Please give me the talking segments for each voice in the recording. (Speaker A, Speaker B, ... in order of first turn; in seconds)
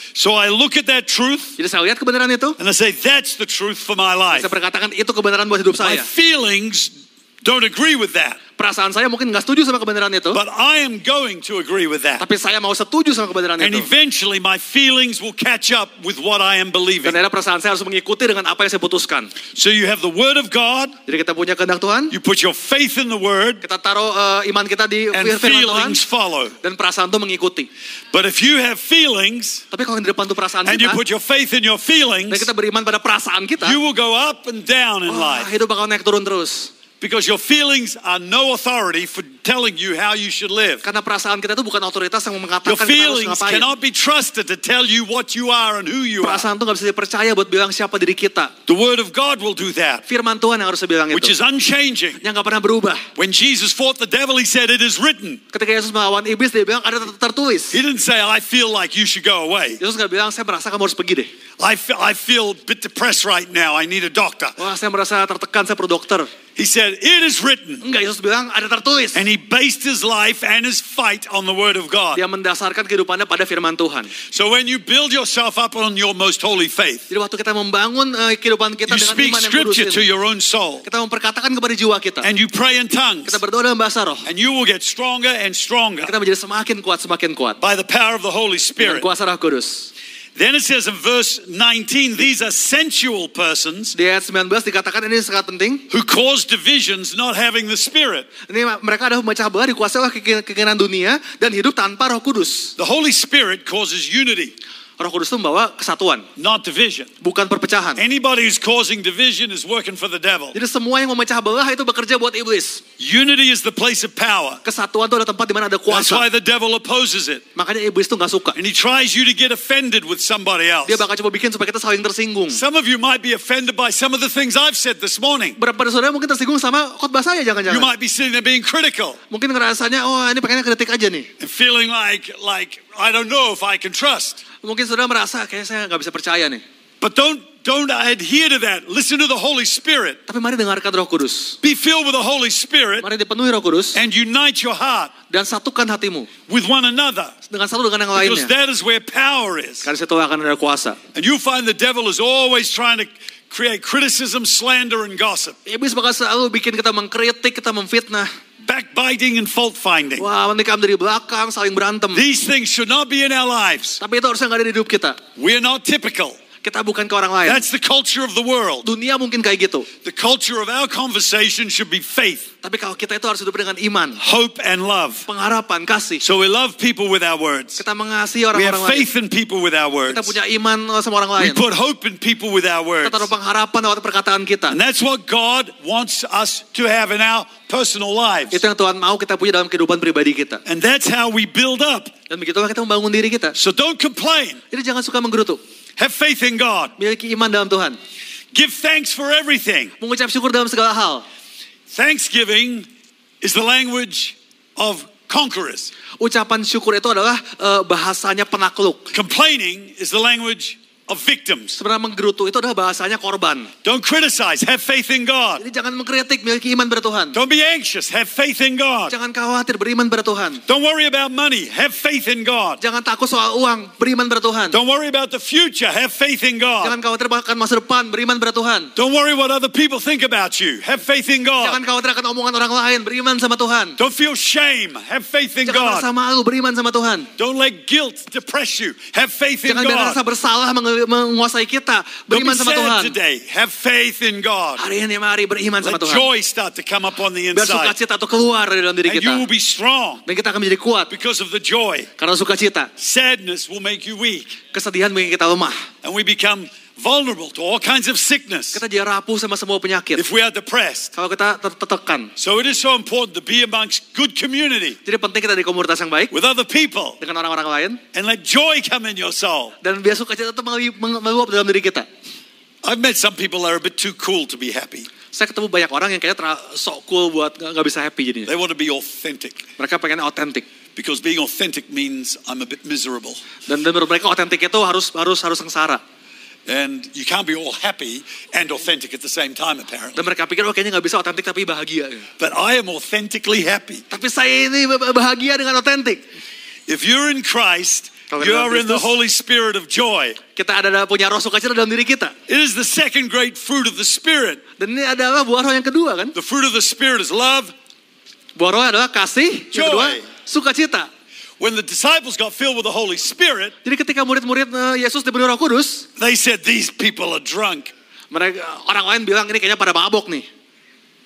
Speaker A: 0.1-1.6, 2.6-4.5, 5.8-8.4, 10.3-12.2, 13.6-17.2, 19.5-21.0, 22.1-23.6, 25.1-26.6, 28.1-29.6, 30.6-32.5, 33.6-35.5, 37.0-40.8, 42.6-46.5, 48.6-50.0, 51.1-52.2, 53.1-55.4, 57.7-59.8, 61.6-64.6, 66.5-67.8, 69.1-72.2, 74.3-77.1, 78.9-80.8, 82.2-83.4, 84.2-86.1, 87.6-89.1, 90.3-94.0, 95.9-98.3, 102.8-104.5, 106.4-107.1, 108.0-110.6, 113.0-114.6, 115.9-117.4, 118.5-121.0, 122.5-125.6, 127.7-129.2, 131.4-134.4, 137.0-140.2, 141.6-143.1, 143.9-145.1, 146.5-147.3, 148.1-149.9, 151.1-155.6, 158.6-160.3, 162.1-164.0, 165.3-166.4, 167.4-168.9, 170.0-172.5, 174.2-175.3, 176.2-177.8, 178.5-180.3, 181.4-183.3, 184.7-188.6, 190.6-192.1, 193.5-194.6, 196.0-196.9, 198.5-199.9, 201.9-202.9, 203.4-205.9, 209.1-211.8, 213.8-215.6, 217.3-219.1, 220.7-222.8, 224.7-226.9, 228.9-231.8, 234.0-236.1, 237.4-240.2, 242.3-244.8, 245.8-247.9, 249.1-250.2, 251.1-252.1, 253.0-254.6, 256.0-258.8, 260.1-261.1, 262.4-265.0, 266.3-267.2, 268.1-269.8, 272.8-275.1, 278.4-279.6, 280.9-283.4, 286.7-290.2, 292.4-294.0, 296.9-300.4, 302.5-304.6, 306.3-307.7, 309.7-310.2, 311.6-313.7, 316.2-317.9
Speaker B: 1.6-2.6, 4.3-6.1, 8.6-10.4, 12.2-13.9, 17.0-19.3, 21.1-22.1, 23.6-26.0, 26.6-27.7, 29.7-31.0, 32.3-33.8, 35.1-36.7, 40.8-43.7, 46.2-48.5, 50.1-51.3, 52.2-53.1, 55.5-57.8, 59.8-61.3, 64.6-66.3, 67.8-69.2, 72.1-74.1, 77.1-80.0, 80.8-82.3, 83.2-84.2, 86.0-87.6, 88.8-89.9, 93.9-95.9, 98.5-102.7, 105.0-106.3, 107.2-108.0, 110.5-112.8, 114.6-116.2, 117.5-118.6, 120.8-122.6, 125.6-127.9, 129.3-131.3, 134.6-136.6, 140.3-141.6, 143.0-144.0, 145.3-146.3, 147.5-148.5, 149.8-151.0, 155.7-158.3, 160.2-162.2, 164.0-165.2, 166.6-167.7, 168.8-169.9, 172.6-174.2, 175.3-176.2, 177.8-179.1, 180.1-181.6, 183.0-184.8, 188.5-190.6, 192.3-193.6, 194.7-195.6, 197.0-198.0, 200.0-201.2, 206.2-209.1, 211.8-213.7, 215.6-217.3, 219.1-220.6, 222.8-224.8, 226.8-228.9, 231.6-234.0, 235.7-237.3, 239.6-243.2, 244.8-246.3, 247.5-249.4, 250.2-251.1, 252.2-252.9, 254.7-255.8, 258.7-260.2, 261.1-262.3, 265.0-266.3, 267.2-268.0, 269.8-272.1, 275.3-278.5, 279.8-280.6, 283.6-286.0, 290.1-292.2, 294.1-296.2, 298.3-299.2, 300.5-302.3, 304.8-306.3, 308.6-311.1, 313.8-316.1, 318.3-320.5